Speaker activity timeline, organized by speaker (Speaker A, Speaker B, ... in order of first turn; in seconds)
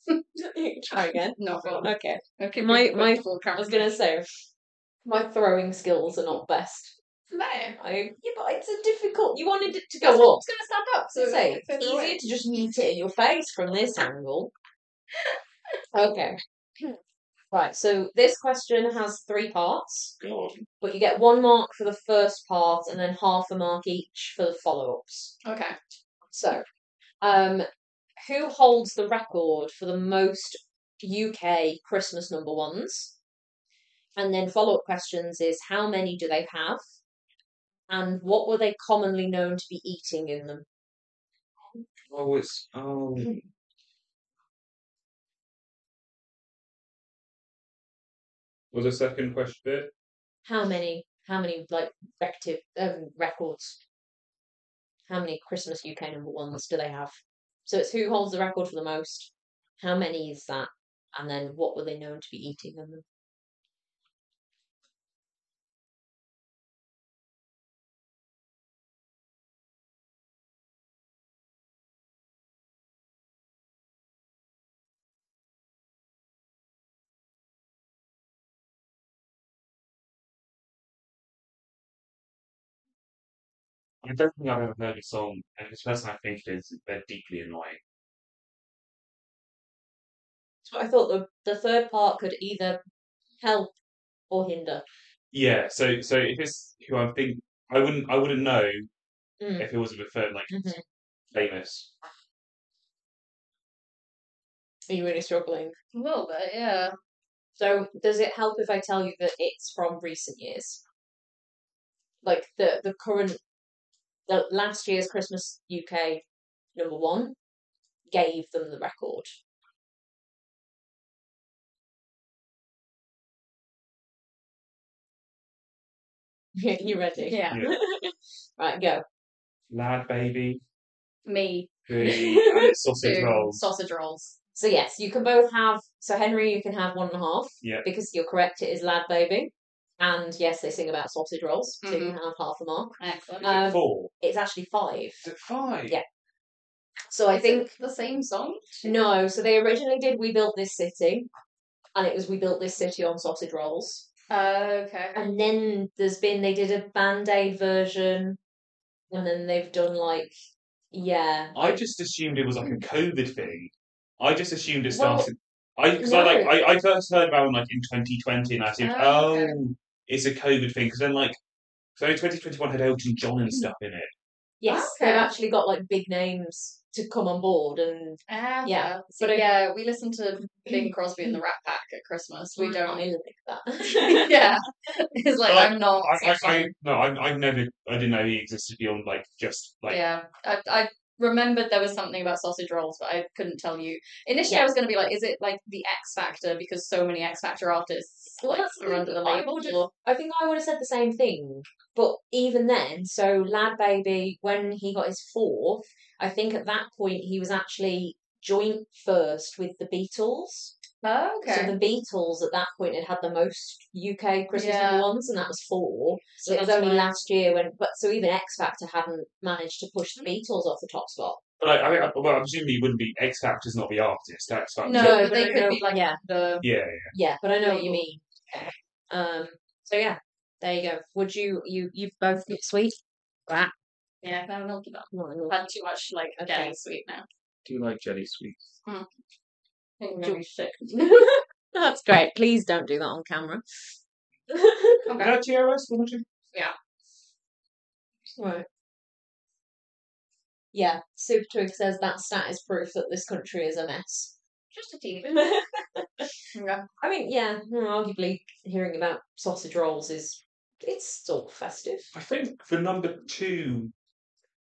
Speaker A: 0.3-4.3, 5.0-7.0, 7.8-10.4, 11.2-14.5, 15.9-16.4, 17.5-20.1, 20.8-25.3, 26.3-26.6, 27.2-27.6, 28.2-33.1, 34.1-36.8, 37.9-40.6, 50.4-53.8, 55.1-63.0, 90.6-92.8, 93.4-93.7, 94.3-94.8, 99.4-99.7, 100.5-100.8, 104.9-105.8, 107.6-110.8, 112.2-113.4, 114.3-116.2, 116.7-117.3, 118.1-119.4, 126.5-129.0, 132.0-132.7, 134.5-145.3, 147.1-147.7, 148.8-151.3, 151.9-154.1, 155.1-158.4, 159.1-160.3, 160.9-161.7, 164.9-165.3, 166.0-166.5, 174.6-179.4, 180.7-181.4, 182.6-184.4, 198.4-210.7, 211.4-221.4, 224.9-226.2, 227.1-233.7, 235.1-235.6, 236.4-236.8, 240.9-243.6, 244.5-245.1, 248.4-248.7, 250.7-254.3, 255.2-256.3, 257.0-262.1
Speaker B: 0.9-3.9, 7.3-7.8, 10.0-12.2, 25.4-25.8, 105.9-106.9, 127.2-127.6, 131.3-131.7, 133.0-134.4, 141.8-142.2, 143.0-143.5, 147.3-148.9, 154.3-155.2, 168.8-169.6, 174.7-175.3, 178.3-183.1, 183.8-186.7, 189.9-199.9, 211.0-211.7, 214.5-215.0, 216.4-217.1, 224.8-226.6, 227.6-228.7, 234.2-237.2, 240.0-241.3, 245.0-245.3, 254.7-255.3, 256.5-256.9
Speaker C: 20.2-20.7, 41.7-43.5, 48.7-49.9, 84.0-87.8, 95.3-98.9, 99.6-100.8, 101.3-101.9, 129.7-130.6, 131.9-133.7, 143.4-144.1, 145.2-146.0, 161.5-171.4, 171.9-174.1, 185.4-190.0, 221.6-225.5, 226.6-227.1, 237.6-238.6, 245.2-246.2, 262.1-263.9